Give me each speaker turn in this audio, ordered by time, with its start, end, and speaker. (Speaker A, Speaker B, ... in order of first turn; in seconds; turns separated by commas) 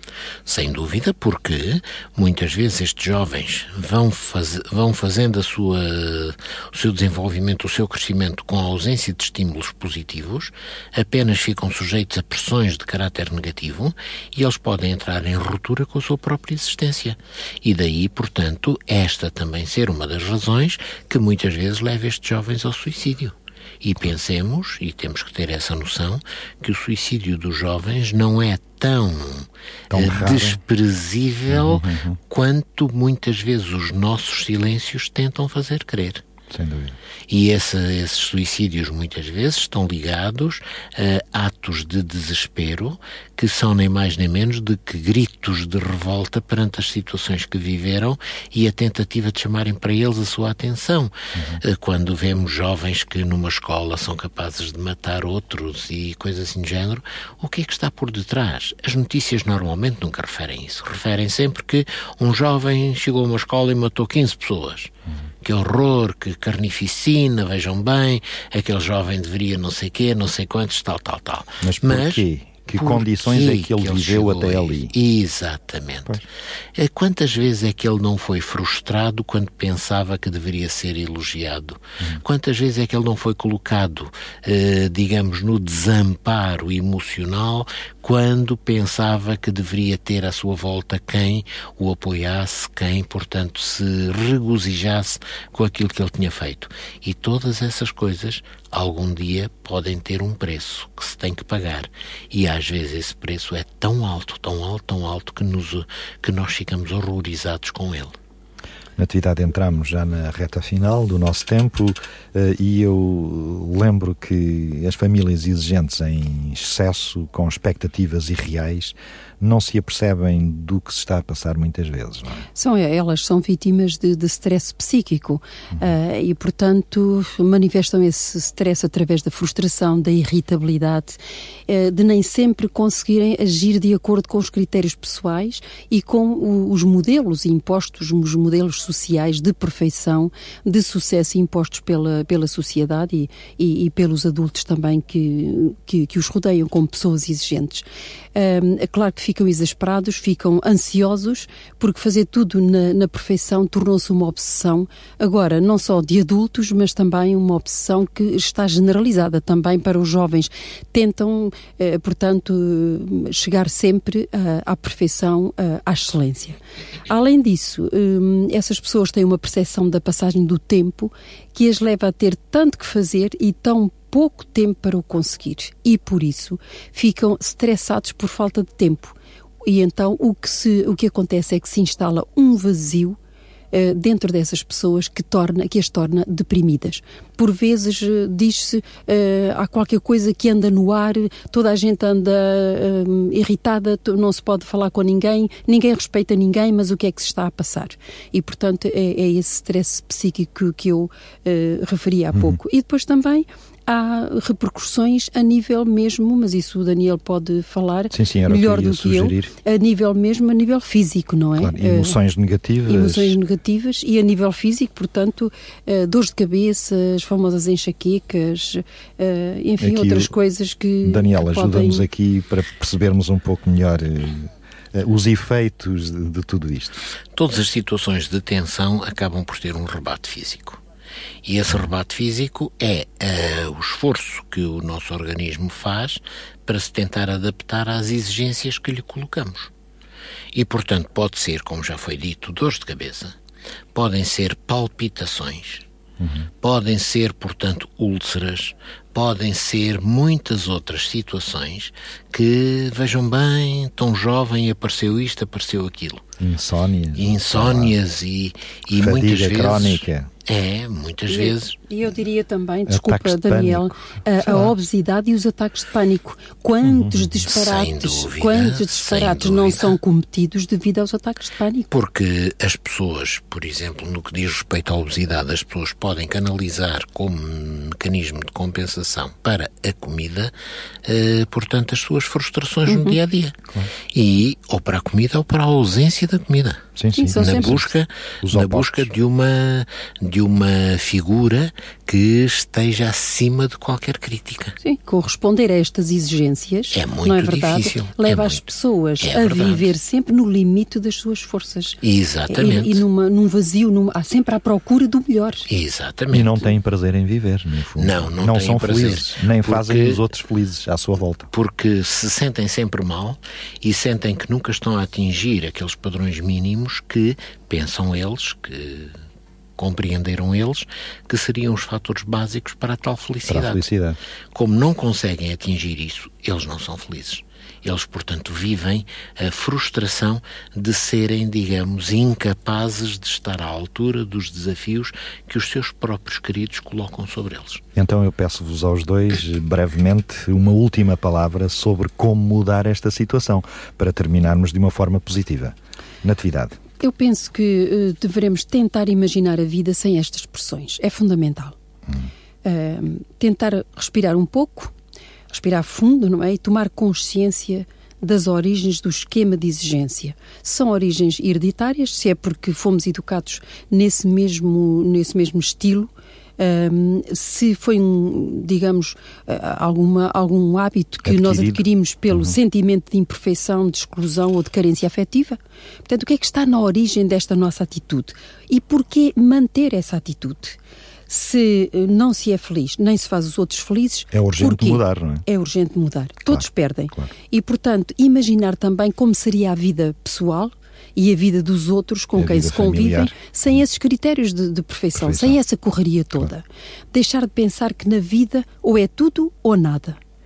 Speaker A: 0.5-36.2, Speaker B: 29.9-30.6, Speaker B: 31.5-32.2, Speaker B: 36.5-37.0, Speaker A: 37.3-64.9, Speaker B: 51.3-51.6, Speaker A: 65.4-76.2, Speaker B: 71.6-74.9, Speaker A: 76.8-108.2, Speaker B: 109.0-122.5, Speaker C: 122.5-183.2, Speaker C: 183.7-212.2, Speaker B: 208.1-209.5, Speaker B: 211.6-213.3, Speaker C: 212.9-222.1, Speaker B: 219.8-220.3, Speaker B: 221.0-227.0, Speaker A: 227.3-230.8, Speaker A: 231.4-239.7, Speaker A: 240.5-243.3, Speaker A: 243.9-245.8, Speaker B: 246.2-246.5, Speaker A: 246.6-256.2, Speaker B: 256.4-257.9, Speaker A: 257.1-261.7, Speaker B: 258.9-260.3, Speaker C: 261.3-271.9, Speaker B: 262.9-264.7, Speaker B: 266.8-267.4, Speaker A: 267.5-270.0, Speaker A: 271.9-280.5, Speaker A: 281.0-286.8, Speaker C: 282.9-283.2, Speaker B: 286.9-287.9, Speaker C: 287.1-287.8, Speaker A: 287.4-294.8, Speaker B: 288.4-289.1, Speaker C: 294.8-305.7, Speaker A: 296.9-298.6, Speaker A: 299.2-299.9, Speaker A: 302.0-303.0, Speaker A: 305.7-306.7, Speaker B: 306.3-311.5, Speaker A: 308.0-310.2, Speaker A: 311.5-319.2, Speaker A: 319.8-323.9, Speaker B: 323.5-324.2, Speaker A: 324.5-337.8, Speaker B: 337.9-346.8, Speaker C: 347.0-351.8, Speaker C: 352.6-354.9, Speaker C: 355.5-380.8, Speaker B: 371.2-372.6, Speaker C: 381.3-400.2, Speaker B: 384.3-385.4, Speaker B: 386.5-387.3, Speaker B: 392.4-393.3, Speaker B: 395.1-395.6